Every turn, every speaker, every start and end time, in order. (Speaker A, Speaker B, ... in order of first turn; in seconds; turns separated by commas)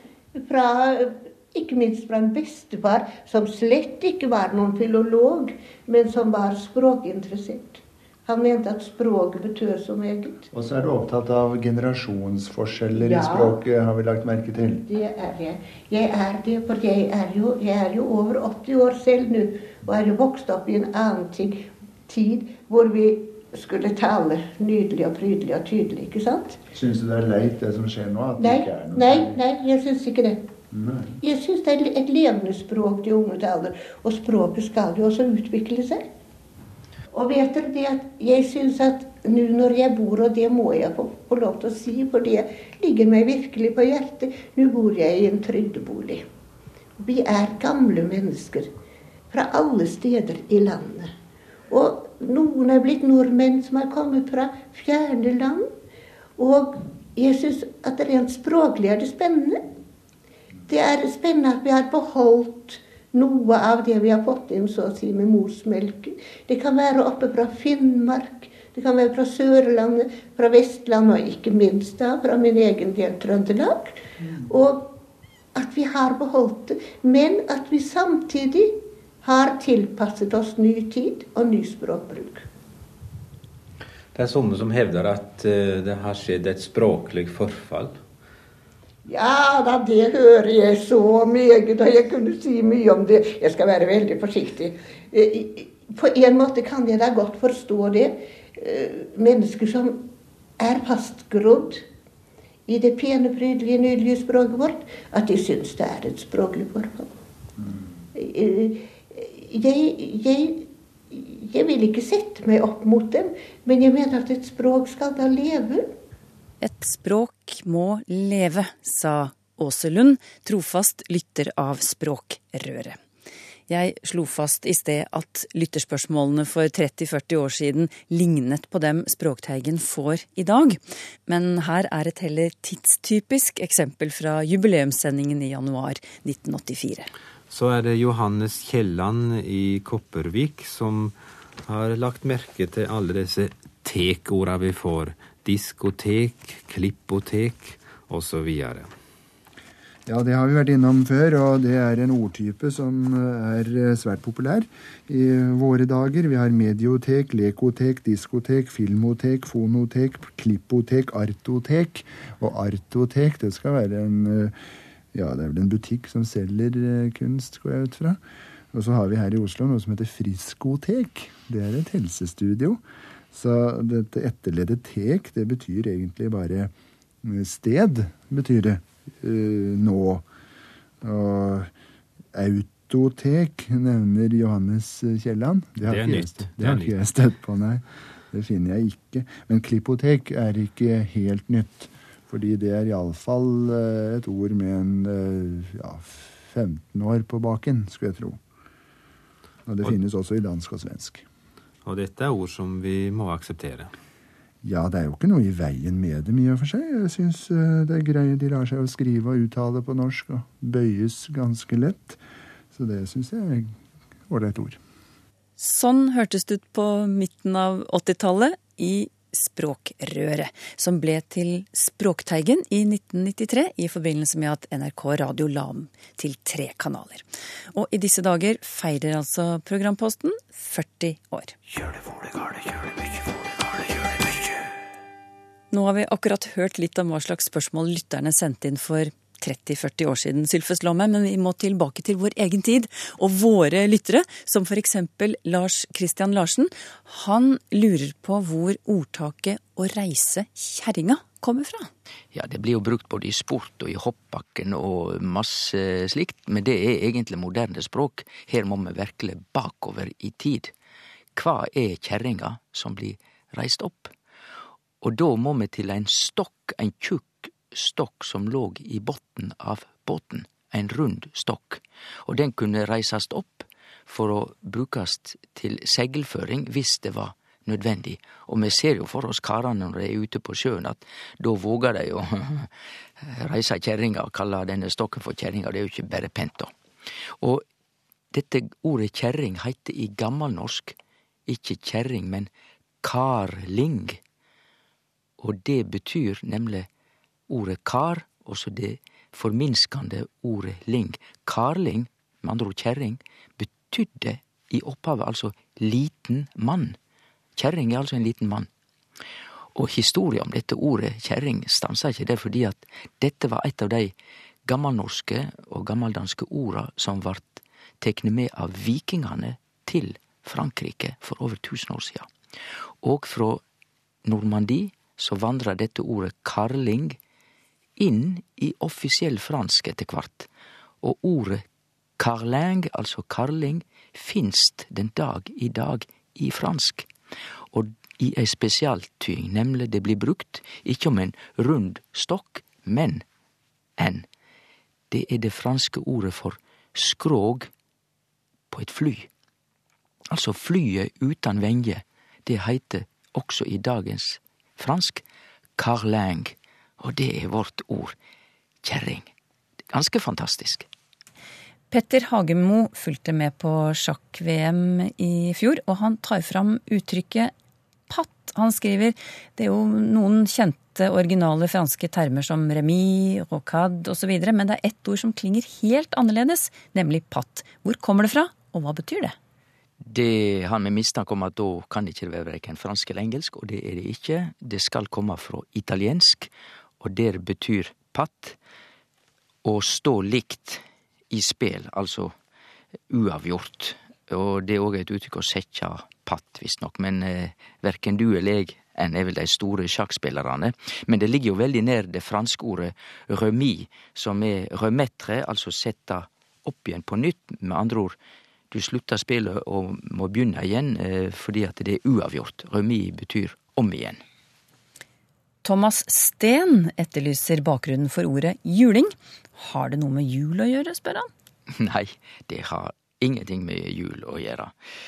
Speaker A: 0.3-10.5, Speaker B: 10.5-14.9, Speaker A: 12.9-13.6, Speaker A: 14.8-26.6, Speaker B: 26.7-29.4, Speaker A: 28.4-30.4, Speaker B: 30.7-31.2, Speaker A: 31.2-36.0, Speaker A: 37.1-46.2, Speaker A: 47.0-48.7, Speaker A: 49.3-51.1, Speaker A: 51.7-55.7, Speaker A: 56.4-59.6, Speaker A: 60.7-74.9, Speaker A: 75.5-82.5, Speaker C: 84.1-88.0, Speaker A: 89.0-100.0, Speaker A: 100.6-101.8, Speaker A: 102.7-107.1, Speaker A: 108.1-115.9, Speaker D: 116.6-123.0, Speaker D: 123.7-137.1, Speaker C: 137.5-141.1, Speaker C: 141.6-148.9, Speaker B: 150.1-164.5, Speaker B: 165.1-168.2, Speaker B: 168.7-172.8, Speaker B: 173.3-180.2, Speaker B: 181.0-181.7, Speaker B: 182.3-198.4, Speaker C: 185.8-186.9, Speaker B: 199.7-201.2, Speaker C: 201.8-203.9, Speaker B: 204.6-212.2, Speaker B: 212.7-213.8, Speaker B: 214.3-214.8, Speaker D: 215.6-231.6, Speaker D: 235.7-251.9, Speaker E: 252.3-260.7, Speaker E: 261.4-264.1, Speaker E: 265.0-282.7, Speaker E: 283.2-286.7, Speaker E: 288.3-290.9, Speaker E: 291.5-292.5, Speaker E: 293.0-294.2, Speaker E: 295.4-296.9, Speaker E: 297.5-306.9, Speaker E: 307.6-308.7, Speaker E: 309.7-314.1, Speaker E: 314.6-322.3, Speaker E: 323.0-323.6, Speaker E: 324.2-327.2, Speaker E: 328.0-330.5, Speaker E: 331.0-331.6, Speaker E: 332.2-337.1, Speaker E: 337.7-343.2, Speaker E: 344.0-344.2, Speaker E: 345.1-347.7, Speaker E: 348.7-349.3, Speaker E: 350.3-355.2, Speaker E: 355.8-358.1, Speaker E: 358.8-359.3, Speaker E: 359.9-360.9, Speaker D: 361.9-367.5, Speaker D: 368.1-379.4, Speaker E: 380.0-386.5, Speaker E: 387.0-388.6, Speaker E: 389.6-392.3, Speaker E: 393.1-408.2, Speaker E: 408.7-414.2, Speaker D: 415.6-421.3, Speaker E: 421.7-424.7